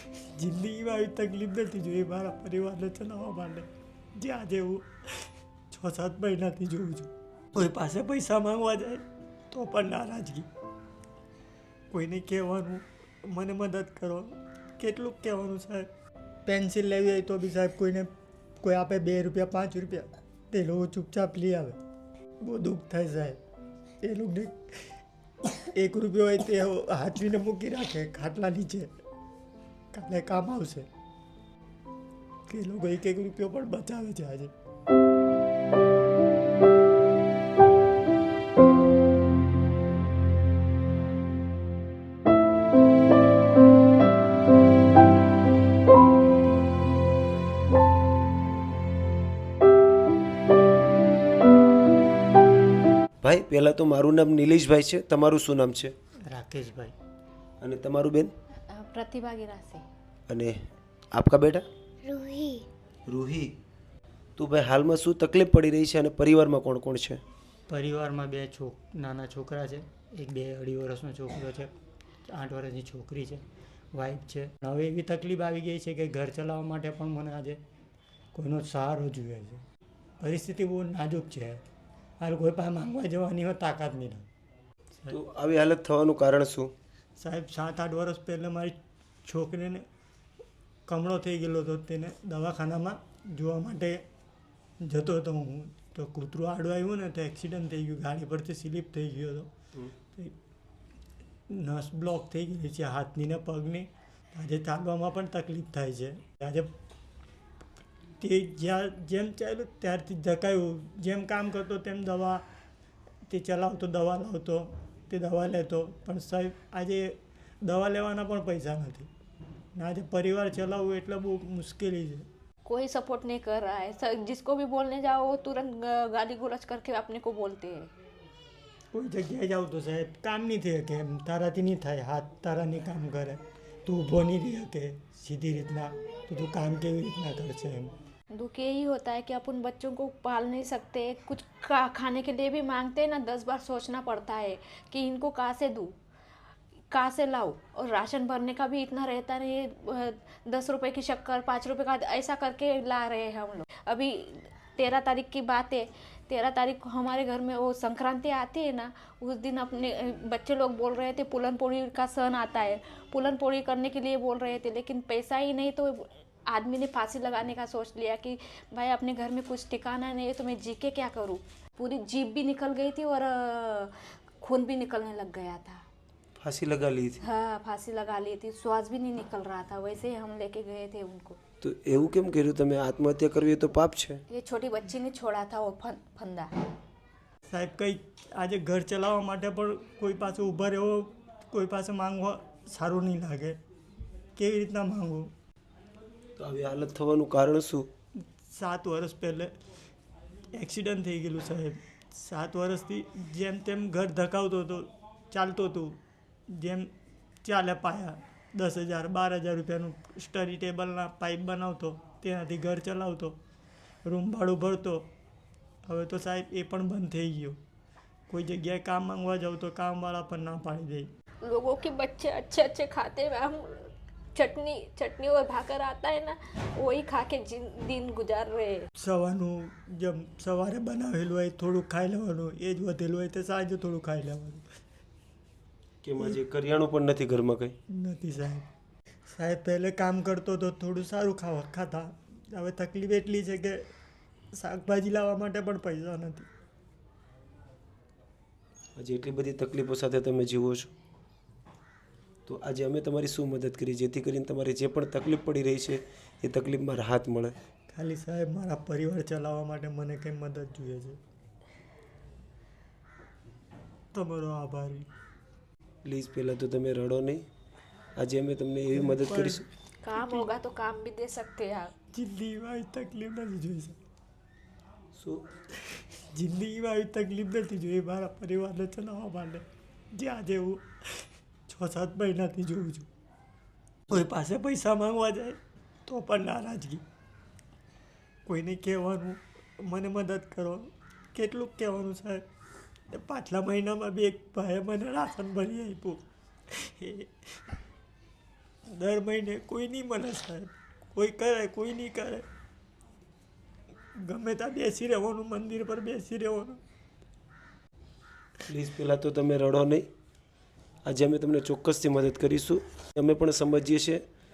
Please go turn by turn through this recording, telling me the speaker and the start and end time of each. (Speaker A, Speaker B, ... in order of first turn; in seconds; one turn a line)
Speaker A: 0.2-10.5
Speaker A: 11.9-15.9
Speaker A: 16.4-18.1
Speaker A: 18.6-21.8
Speaker A: 22.4-23.4
Speaker A: 24.0-24.6
Speaker A: 25.5-28.9
Speaker A: 29.9-30.9
Speaker A: 32.5-34.5
Speaker B: 53.2-55.9
Speaker A: 56.3-56.9
Speaker B: 57.6-58.3
Speaker C: 58.7-59.8
Speaker B: 60.3-60.5
Speaker B: 61.1-61.6
Speaker B: 63.1-63.5
Speaker B: 64.4-67.2
Speaker A: 67.7-71.7
Speaker A: 72.3-73.4
Speaker A: 73.9-77.6
Speaker A: 78.3-79.6
Speaker A: 80.2-81.6
Speaker A: 82.2-84.3
Speaker B: 85.1-86.7
Speaker A: 87.2-88.7
Speaker A: 89.2-89.8
Speaker A: 90.9-93.9
Speaker A: 94.8-99.5
Speaker A: 101.5-106.7
Speaker A: 108.2-112.4
Speaker A: 113.3-119.1
Speaker A: 119.8-122.2
Speaker C: 122.7-127.9
Speaker A: 128.9-137.9
Speaker C: 138.3-145.9
Speaker C: 146.9-175.8
Speaker B: 176.4-177.2
Speaker C: 177.2-181.4
Speaker B: 181.6-184.2
Speaker C: 184.3-186.5
Speaker A: 187.5-193.6
Speaker A: 194.3-195.3
Speaker B: 196.4-197.9
Speaker A: 198.5-199.5
Speaker A: 200.6-206.0
Speaker A: 206.6-206.9
Speaker A: 207.4-213.3
Speaker A: 214.1-215.0
Speaker A: 215.9-217.6
Speaker A: 218.3-221.1
Speaker C: 221.4-228.9
Speaker A: 229.0-234.7
Speaker B: 236.0-237.7
Speaker A: 237.9-238.7
Speaker A: 239.3-243.8
Speaker A: 244.5-246.5
Speaker B: 249.0-250.9
Speaker B: 252.4-257.5
Speaker A: 257.9-261.2
Speaker A: 264.1-265.1
Speaker B: 266.0-267.4
Speaker B: 268.2-269.6
Speaker A: 268.9-269.6
Speaker C: 270.0-271.9
Speaker A: 272.1-274.0
Speaker B: 275.1-275.5
Speaker A: 276.1-279.6
Speaker A: 280.1-280.8
Speaker A: 281.7-283.1
Speaker A: 284.1-287.0
Speaker A: 288.4-292.4
Speaker A: 293.1-296.2
Speaker A: 296.8-297.3
Speaker A: 298.9-302.4
Speaker A: 304.2-306.8
Speaker B: 308.7-310.1
Speaker B: 311.1-314.2